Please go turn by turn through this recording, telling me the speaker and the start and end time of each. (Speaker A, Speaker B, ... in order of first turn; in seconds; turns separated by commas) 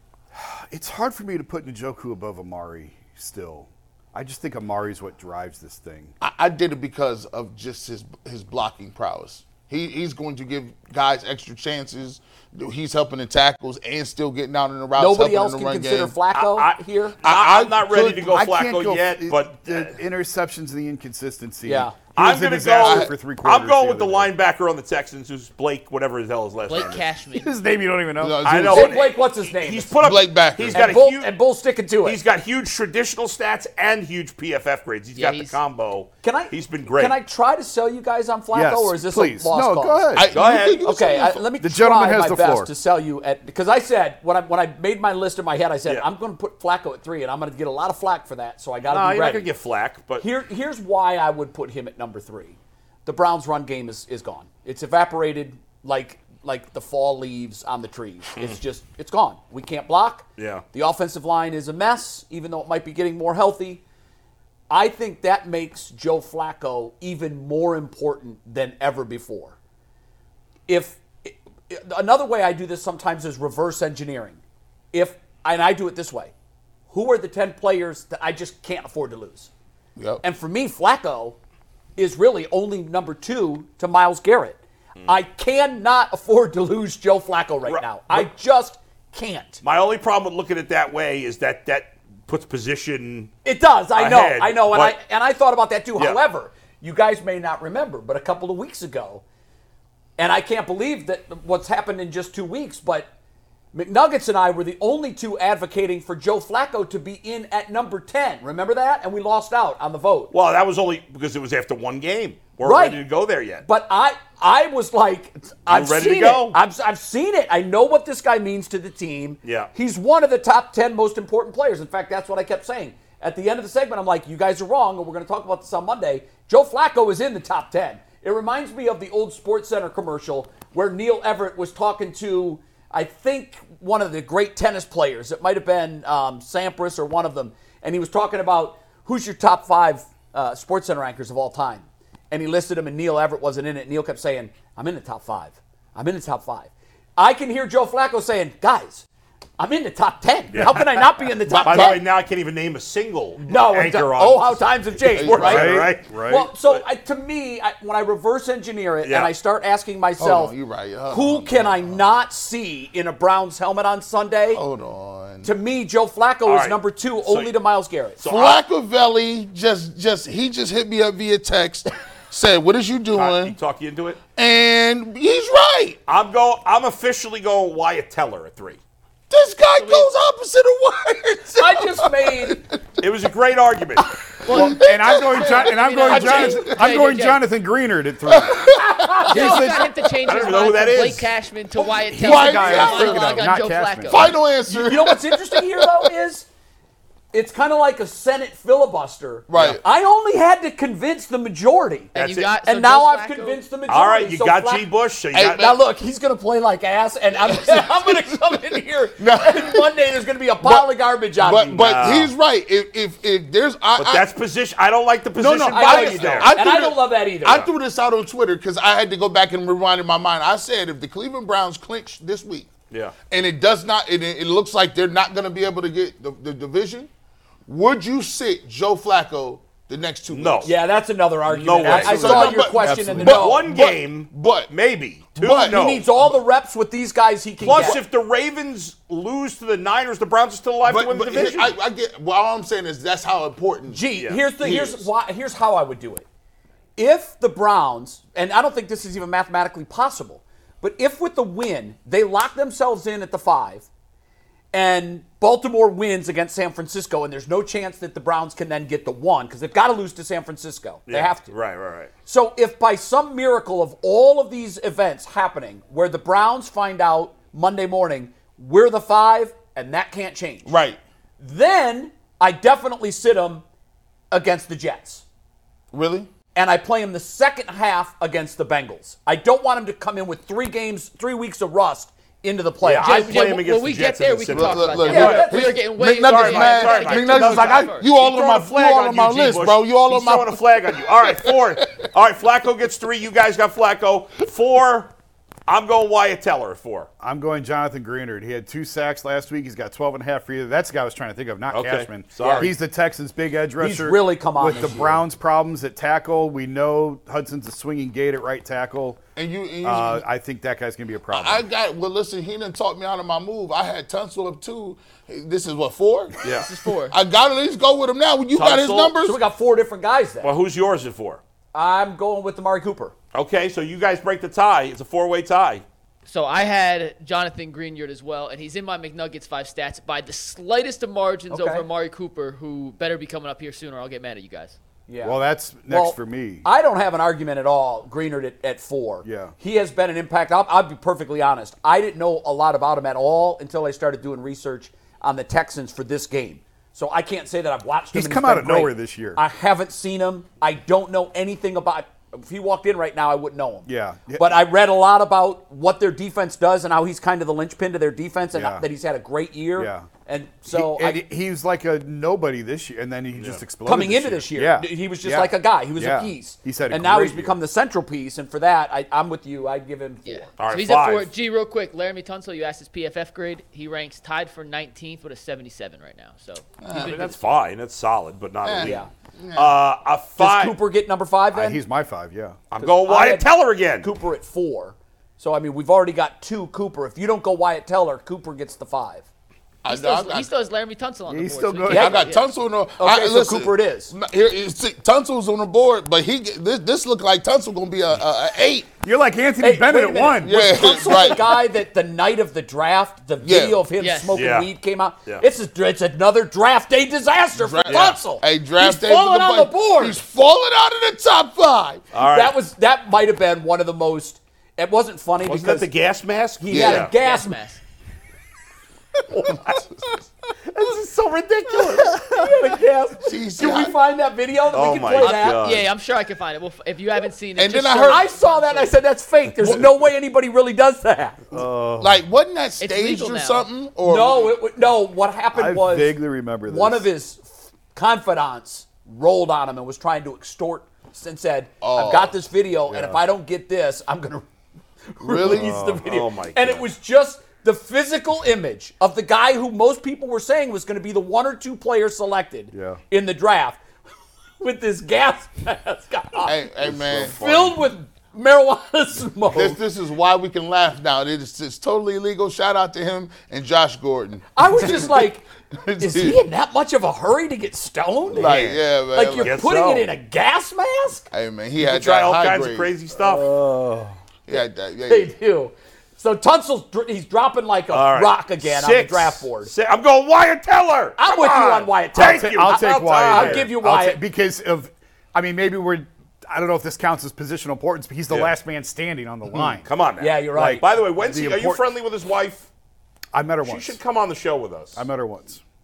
Speaker A: 0.3-6.1, Speaker B: 6.2-16.2, Speaker C: 15.0-17.2, Speaker D: 16.3-20.0, Speaker B: 17.2-18.4, Speaker A: 18.2-24.3, Speaker C: 21.6-22.0, Speaker D: 22.2-27.0, Speaker B: 22.8-23.1, Speaker E: 26.7-27.5, Speaker A: 27.4-28.4, Speaker B: 28.2-29.0, Speaker D: 28.4-31.4, Speaker C: 28.7-30.0, Speaker B: 30.0-30.9, Speaker C: 30.7-32.2, Speaker D: 32.0-37.2, Speaker E: 35.1-35.6, Speaker C: 36.2-40.3, Speaker A: 38.5-40.3, Speaker B: 40.1-41.5, Speaker D: 40.3-40.8, Speaker C: 40.8-49.5, Speaker A: 41.6-42.7, Speaker D: 48.9-50.2, Speaker C: 50.2-63.8, Speaker D: 60.4-60.6, Speaker C: 64.7-69.6, Speaker C: 70.7-74.4, Speaker C: 74.9-76.3, Speaker C: 76.9-79.5, Speaker B: 80.0-80.2, Speaker C: 80.2-81.4, Speaker C: 82.0-89.6, Speaker D: 87.7-88.3, Speaker D: 89.6-93.3, Speaker C: 93.5-99.2, Speaker D: 93.9-95.0, Speaker C: 100.2-103.1, Speaker C: 103.7-110.3, Speaker D: 110.3-113.7, Speaker C: 112.6-113.0, Speaker C: 113.6-149.1, Speaker D: 115.7-116.6, Speaker D: 119.4-119.7, Speaker C: 149.6-152.0, Speaker D: 150.5-154.7, Speaker B: 151.6-152.0, Speaker A: 151.7-151.9, Speaker C: 153.5-160.6, Speaker B: 155.1-155.8, Speaker D: 155.2-156.1, Speaker A: 155.4-156.5, Speaker D: 159.0-159.3, Speaker B: 160.2-162.0, Speaker C: 161.1-164.6, Speaker B: 164.5-165.5, Speaker C: 165.4-168.2, Speaker D: 166.5-167.5, Speaker D: 168.2-168.6, Speaker B: 168.2-173.6, Speaker D: 173.2-174.2, Speaker B: 174.4-176.0, Speaker D: 176.1-178.8, Speaker B: 179.3-182.8, Speaker E: 179.7-180.1, Speaker C: 181.6-182.6, Speaker D: 183.0-184.1, Speaker B: 184.5-186.8, Speaker E: 184.5-187.4, Speaker A: 184.5-190.0, Speaker B: 188.3-189.9, Speaker E: 189.3-194.3, Speaker D: 190.3-191.3, Speaker A: 192.0-194.3, Speaker B: 192.1-193.5, Speaker B: 194.1-196.1, Speaker C: 194.7-196.5, Speaker C: 197.3-204.9, Speaker B: 199.5-199.8, Speaker E: 202.1-203.6, Speaker D: 202.2-202.6, Speaker D: 203.9-205.8, Speaker B: 205.3-205.8, Speaker C: 205.4-211.9, Speaker B: 207.5-208.6, Speaker B: 209.2-209.9, Speaker B: 210.6-214.3, Speaker D: 211.7-212.3, Speaker D: 214.0-216.6, Speaker B: 215.4-222.7, Speaker C: 215.7-217.7, Speaker B: 223.3-227.1, Speaker B: 227.7-230.7, Speaker D: 230.3-230.7, Speaker C: 230.7-233.7, Speaker D: 231.5-232.6, Speaker B: 231.8-234.7, Speaker A: 232.2-233.4, Speaker D: 233.2-236.1, Speaker B: 235.4-235.8, Speaker C: 235.4-238.0, Speaker D: 237.6-241.8, Speaker B: 240.8-244.0, Speaker C: 243.9-246.3, Speaker B: 244.6-245.1, Speaker C: 247.0-253.9, Speaker C: 254.7-261.5, Speaker D: 261.1-262.1, Speaker C: 262.3-270.7, Speaker B: 270.7-271.0, Speaker C: 271.4-273.6, Speaker C: 274.3-275.2, Speaker B: 275.9-276.3, Speaker C: 276.6-283.4, Speaker D: 282.8-295.1, Speaker E: 283.0-288.1, Speaker B: 284.5-291.8, Speaker C: 285.1-285.8, Speaker D: 295.7-297.1, Speaker A: 297.2-309.2, Speaker D: 301.7-302.7, Speaker C: 302.4-302.7, Speaker C: 303.8-305.2, Speaker B: 309.4-310.2, Speaker A: 309.8-311.6, Speaker B: 311.3-316.4, Speaker D: 316.4-316.7, Speaker E: 316.4-317.2, Speaker B: 317.1-319.4, Speaker D: 318.6-319.1, Speaker C: 319.2-320.5, Speaker D: 320.4-321.4, Speaker C: 321.7-323.1, Speaker D: 323.3-325.8, Speaker E: 326.3-334.8, Speaker C: 331.5-331.9, Speaker C: 335.1-335.4, Speaker A: 335.2-336.7, Speaker C: 335.9-361.2, Speaker A: 339.2-339.5, Speaker A: 348.1-349.4, Speaker A: 353.9-354.6, Speaker A: 358.5-358.9, Speaker A: 359.8-360.1, Speaker A: 360.7-367.6, Speaker D: 363.4-363.6, Speaker C: 363.9-370.5, Speaker E: 370.3-377.3, Speaker D: 370.6-371.3, Speaker B: 376.8-377.4, Speaker D: 376.9-379.0, Speaker B: 378.6-379.8, Speaker C: 378.8-379.1, Speaker D: 379.5-380.8, Speaker C: 380.4-381.8, Speaker A: 381.5-382.6, Speaker D: 382.7-384.1, Speaker C: 382.8-383.5, Speaker C: 384.0-389.3, Speaker B: 389.8-390.5, Speaker E: 389.9-392.4, Speaker A: 391.3-392.3, Speaker B: 391.9-398.9, Speaker C: 393.0-394.1, Speaker A: 399.0-400.8, Speaker C: 399.6-410.2, Speaker B: 400.4-401.6, Speaker B: 403.4-403.8, Speaker E: 404.0-404.5, Speaker D: 404.3-404.7, Speaker B: 407.6-412.1, Speaker D: 407.9-408.2, Speaker D: 412.1-412.6, Speaker C: 412.2-415.9, Speaker D: 415.4-417.1, Speaker C: 416.6-417.6, Speaker B: 416.7-417.1, Speaker E: 417.0-417.8, Speaker C: 419.3-419.8, Speaker C: 420.7-425.6, Speaker B: 423.2-424.0, Speaker D: 424.7-425.9, Speaker E: 425.2-429.0, Speaker B: 427.6-428.2, Speaker C: 428.1-431.5, Speaker A: 431.5-432.2, Speaker B: 432.0-434.6, Speaker E: 432.8-433.7, Speaker C: 434.0-444.5, Speaker A: 435.5-437.1, Speaker B: 441.8-442.3, Speaker A: 442.9-443.2, Speaker C: 445.1-453.8, Speaker B: 445.2-445.8, Speaker A: 445.4-446.0, Speaker D: 446.0-446.9, Speaker A: 452.7-453.0, Speaker C: 454.6-459.8, Speaker B: 456.4-457.4, Speaker D: 456.9-457.8, Speaker B: 459.5-466.4, Speaker C: 464.6-465.4, Speaker C: 466.0-471.3, Speaker B: 468.3-469.6, Speaker D: 468.4-468.8, Speaker D: 469.4-470.1, Speaker B: 471.3-472.9, Speaker D: 471.8-473.5, Speaker A: 473.2-474.1, Speaker B: 474.5-475.3, Speaker C: 475.1-479.7, Speaker D: 477.9-483.7, Speaker C: 481.2-484.2, Speaker A: 482.1-489.9, Speaker D: 488.3-488.5, Speaker D: 489.6-492.7, Speaker C: 490.2-490.9, Speaker A: 490.5-491.8, Speaker A: 493.3-494.0, Speaker D: 493.6-495.0, Speaker A: 495.0-495.6